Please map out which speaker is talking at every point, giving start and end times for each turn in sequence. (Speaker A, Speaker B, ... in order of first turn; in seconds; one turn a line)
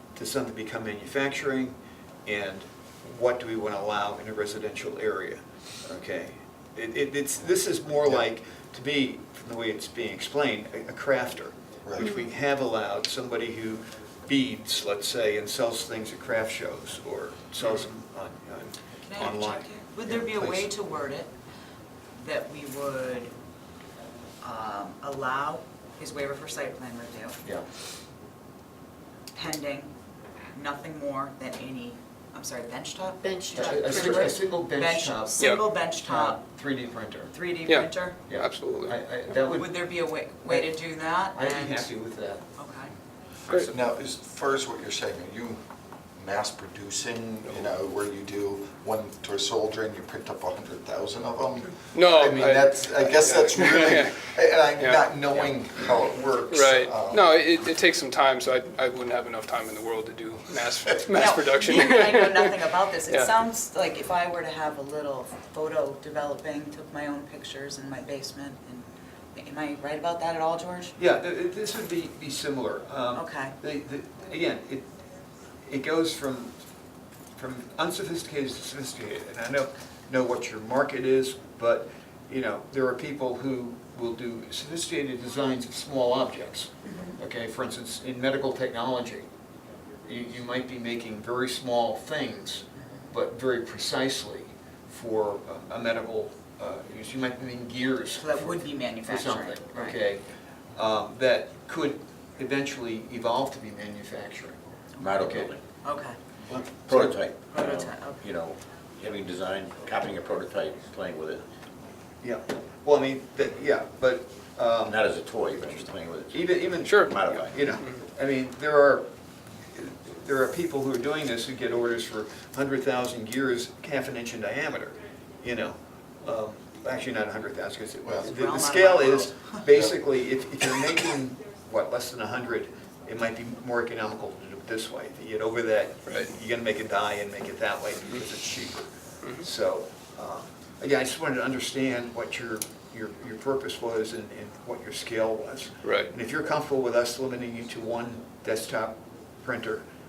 Speaker A: 0.1-20.7
Speaker B: 11.8-12.1
Speaker C: 19.1-21.3
Speaker C: 22.2-23.3
Speaker C: 24.4-27.4
Speaker C: 29.3-29.9
Speaker C: 30.5-36.4
Speaker A: 33.5-37.4
Speaker C: 37.3-38.2
Speaker D: 37.7-39.0
Speaker A: 38.3-42.5
Speaker C: 39.3-41.9
Speaker C: 42.6-42.9
Speaker B: 43.5-45.6
Speaker B: 46.2-57.3
Speaker D: 51.9-55.5
Speaker D: 56.5-62.5
Speaker C: 61.1-71.0
Speaker D: 63.1-63.3
Speaker A: 71.0-74.9
Speaker C: 73.1-73.6
Speaker A: 75.6-76.6
Speaker A: 77.4-89.3
Speaker C: 86.8-87.2
Speaker A: 90.0-100.2
Speaker C: 98.2-100.0
Speaker A: 100.8-105.5
Speaker E: 105.0-105.7
Speaker C: 105.8-106.2
Speaker A: 106.4-107.2
Speaker E: 106.8-111.5
Speaker C: 107.5-108.2
Speaker A: 112.2-115.0
Speaker E: 114.8-117.6
Speaker A: 116.3-119.1
Speaker D: 116.8-117.2
Speaker A: 119.7-149.8
Speaker C: 128.2-129.6
Speaker D: 145.8-146.1